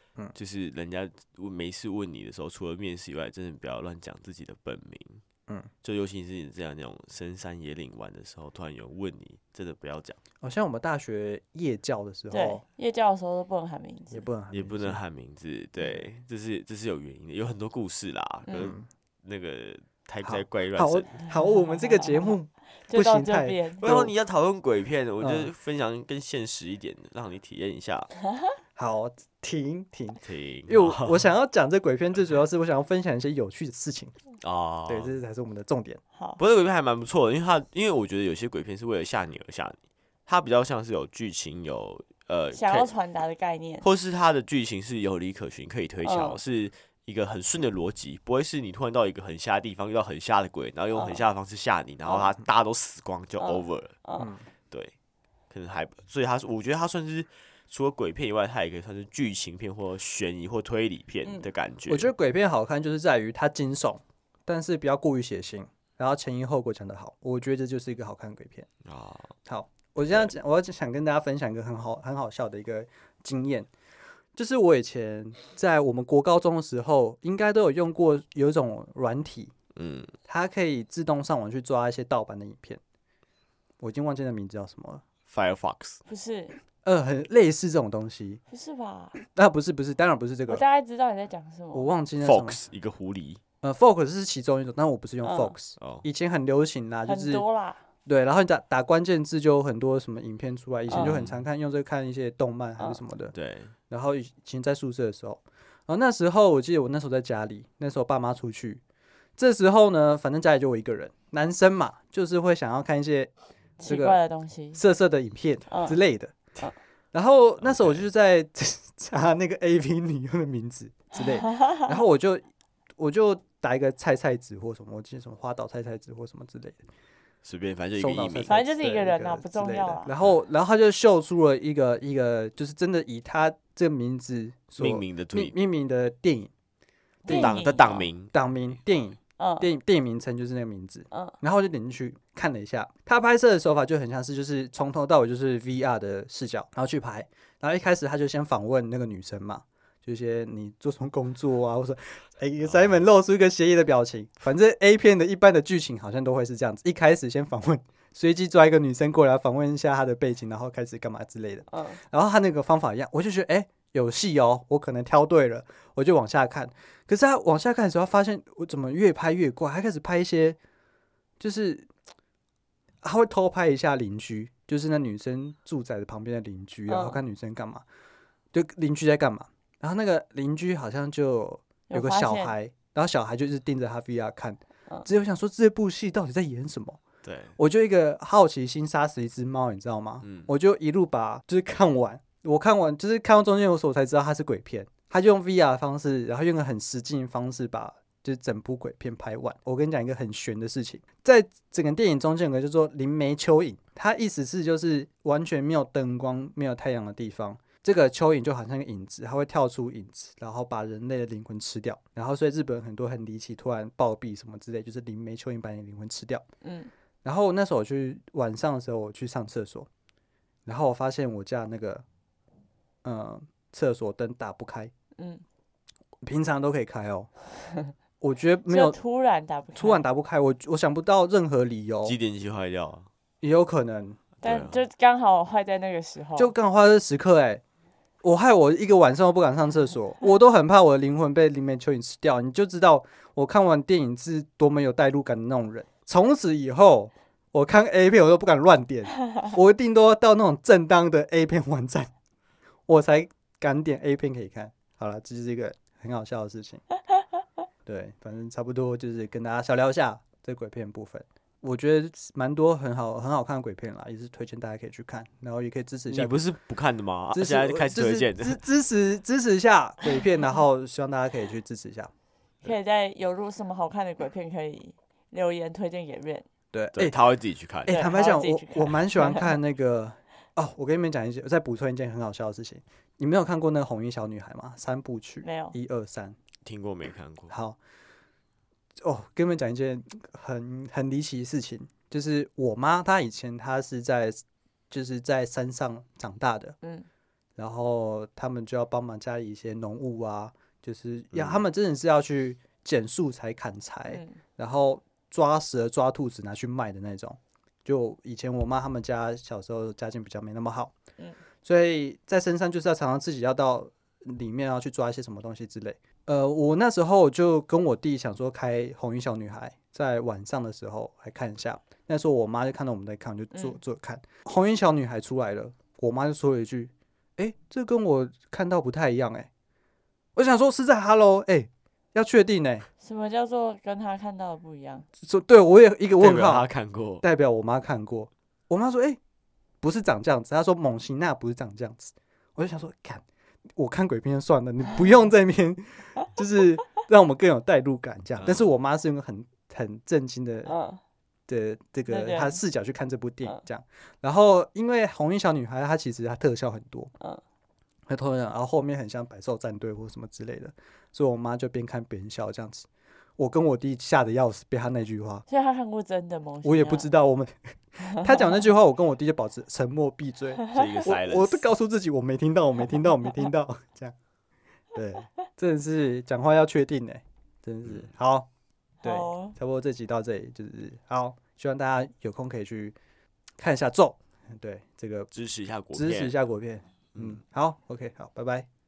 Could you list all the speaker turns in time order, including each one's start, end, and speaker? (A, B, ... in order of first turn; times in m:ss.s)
0:00.4-0:05.2 A
0:05.8-0:10.2 A
0:10.4-0:12.6 B
0:12.3-0:14.3 C
0:14.1-0:15.0 B
0:14.5-0:21.2 A
0:18.5-0:18.8 C
0:18.5-0:18.9 B
0:20.2-0:24.1 B
0:21.6-0:23.8 C
0:23.8-0:28.1 A
0:25.2-0:25.5 B
0:28.3-0:28.5 C
0:28.8-0:34.2 B
0:30.2-0:31.3 A
0:34.4-0:35.1 A
0:34.9-0:36.0 B
0:36.2-0:36.4 C
0:36.4-0:42.9 A
0:42.5-0:43.8 C
0:43.8-0:54.0 A
0:46.0-0:46.4 C
0:51.0-0:51.2 C
0:53.4-0:54.3 C
0:54.2-0:54.5 B
0:55.5-1:02.1 A
1:01.9-1:08.7 B
1:08.8-1:09.4 A
1:09.5-1:13.7 B
1:14.4-1:19.5 B
1:19.8-1:20.1 A
1:20.3-1:22.8 B
1:23.8-1:25.0 B
1:25.3-1:26.0 A
1:26.1-1:26.6 C
1:26.8-1:28.4 B
1:28.5-1:29.2 C
1:29.2-1:30.6 B
1:30.5-1:31.9 C
1:31.7-1:32.6 B
1:32.2-1:33.4 A
1:33.6-1:37.4 B
1:35.2-1:35.6 C
1:35.8-1:36.0 A
1:37.1-1:37.8 C
1:38.1-1:43.3 B
1:40.9-1:41.2 C
1:40.9-1:41.4 A
1:43.3-1:43.7 A
1:43.9-1:48.8 B
1:49.4-1:53.3 B
1:53.8-1:54.8 C
1:53.9-1:54.2 B
1:54.8-1:56.4 B
1:55.7-1:56.0 C
1:57.1-2:06.8 B
1:57.6-1:58.0 A
2:01.2-2:01.9 C
2:07.4-2:08.5 A
2:08.0-2:16.5 B
2:08.5-2:10.1 C
2:14.8-2:15.6 A
2:17.2-2:18.1 C
2:17.3-2:18.3 A
2:17.3-2:17.6 B
2:18.3-2:50.6 B
2:19.4-2:19.7 C
2:41.7-2:42.0 C
2:51.4-2:51.9 B
2:53.0-2:57.8 B
2:56.9-2:57.2 C
2:58.5-3:07.0 B
3:01.9-3:02.6 C
3:07.2-3:07.6 A
3:07.6-3:36.4 B
3:10.2-3:10.5 A
3:36.6-3:36.9 C
3:37.2-3:39.9 B
3:40.7-3:42.0 B
3:43.0-3:44.9 B
3:45.2-3:45.4 C
3:46.2-3:47.3 B
3:48.2-3:49.0 B
3:48.7-3:50.0 C
3:49.8-3:52.2 B
3:52.0-3:53.1 A
3:53.4-3:54.2 B
3:54.4-3:54.8 A
3:54.4-3:56.5 C
3:56.4-3:57.6 B
3:58.2-4:12.1 B
4:12.9-4:16.8 B
4:17.9-4:26.4 B
4:26.1-4:28.6 A
4:27.3-4:32.1 B
4:32.6-4:36.5 C
4:36.7-4:37.2 B
4:37.0-4:38.0 A
4:37.9-4:46.4 B
4:37.9-4:39.6 C
4:45.4-4:45.8 C
4:46.6-4:47.5 A
4:47.5-4:47.8 B
4:49.0-4:56.8 B
4:56.8-4:57.1 C
4:57.6-5:10.9 B
5:01.3-5:01.6 A
5:04.1-5:04.4 C
5:11.6-5:29.5 B
5:23.5-5:23.8 C
5:30.4-5:32.9 B
5:33.0-5:35.1 C
5:35.2-5:36.7 B
5:36.2-5:37.2 A
5:37.2-5:39.2 B
5:39.8-5:43.2 B
5:43.8-5:50.8 B
5:48.4-5:48.7 A
5:50.6-5:51.0 C
5:51.5-5:57.1 B
5:52.1-5:52.6 C
5:58.1-6:02.9 B
6:03.4-6:05.4 B
6:05.5-6:07.1 C
6:06.6-6:14.2 B
6:08.1-6:08.4 C
6:10.7-6:11.7 A
6:15.0-6:18.5 B
6:17.8-6:18.1 A
6:19.0-6:19.6 C
6:19.0-6:23.0 B
6:23.6-6:25.3 B
6:25.3-6:26.3 A
6:26.0-6:28.7 B
6:27.1-6:27.4 A